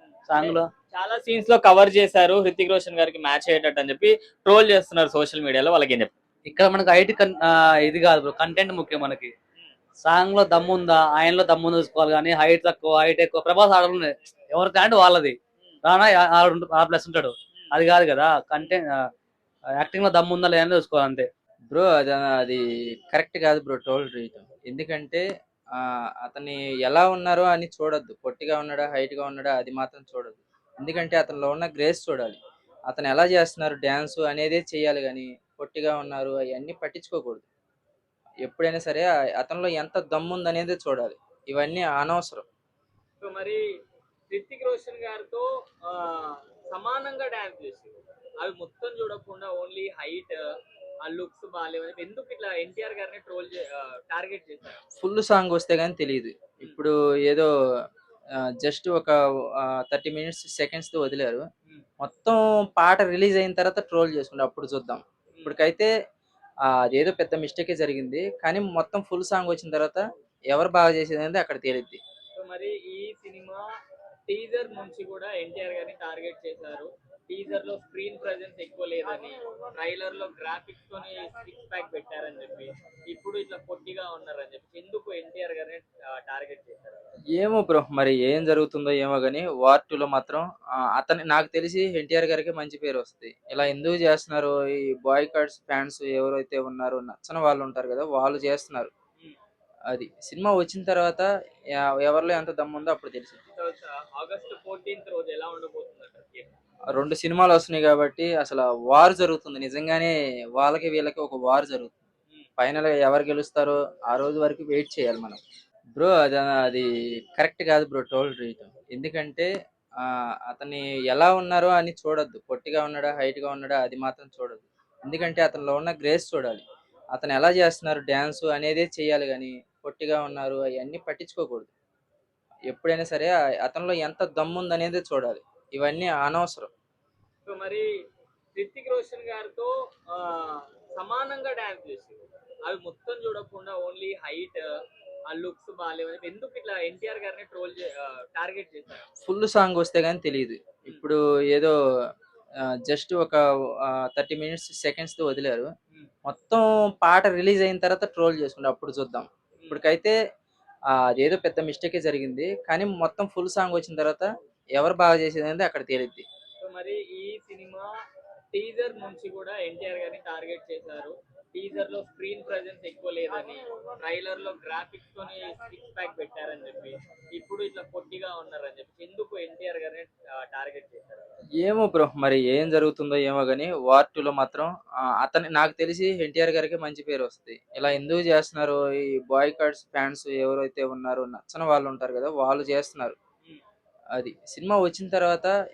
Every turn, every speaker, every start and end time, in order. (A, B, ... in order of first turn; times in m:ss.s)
0:00.3-0:00.7 A
0:00.4-0:06.1 B
0:06.5-0:09.3 A
0:10.0-0:19.0 A
0:19.8-0:21.3 A
0:21.7-0:37.5 C
0:38.4-0:42.4 C
0:43.2-0:43.6 B
0:44.3-0:50.4 B
0:51.0-0:54.8 B
0:55.0-0:57.5 C
0:58.6-1:01.5 C
1:02.0-1:05.9 C
1:05.3-1:05.6 B
1:06.8-1:12.0 C
1:12.4-1:13.7 B
1:14.3-1:27.0 B
1:27.4-1:38.9 C
1:39.9-1:41.3 C
1:41.8-1:43.4 C
1:43.6-1:46.5 B
1:47.0-1:52.0 C
1:52.6-1:55.4 C
1:56.0-2:11.7 C
2:12.7-2:16.7 C
2:17.5-2:17.9 B
2:18.6-2:24.7 B
2:25.3-2:29.1 B
2:29.2-2:31.7 C
2:32.6-2:35.7 C
2:36.3-2:40.2 C
2:39.6-2:39.9 B
2:40.9-2:46.2 C
2:46.6-2:47.9 B
2:48.5-3:01.3 B
3:01.6-3:13.2 C
3:14.2-3:15.5 C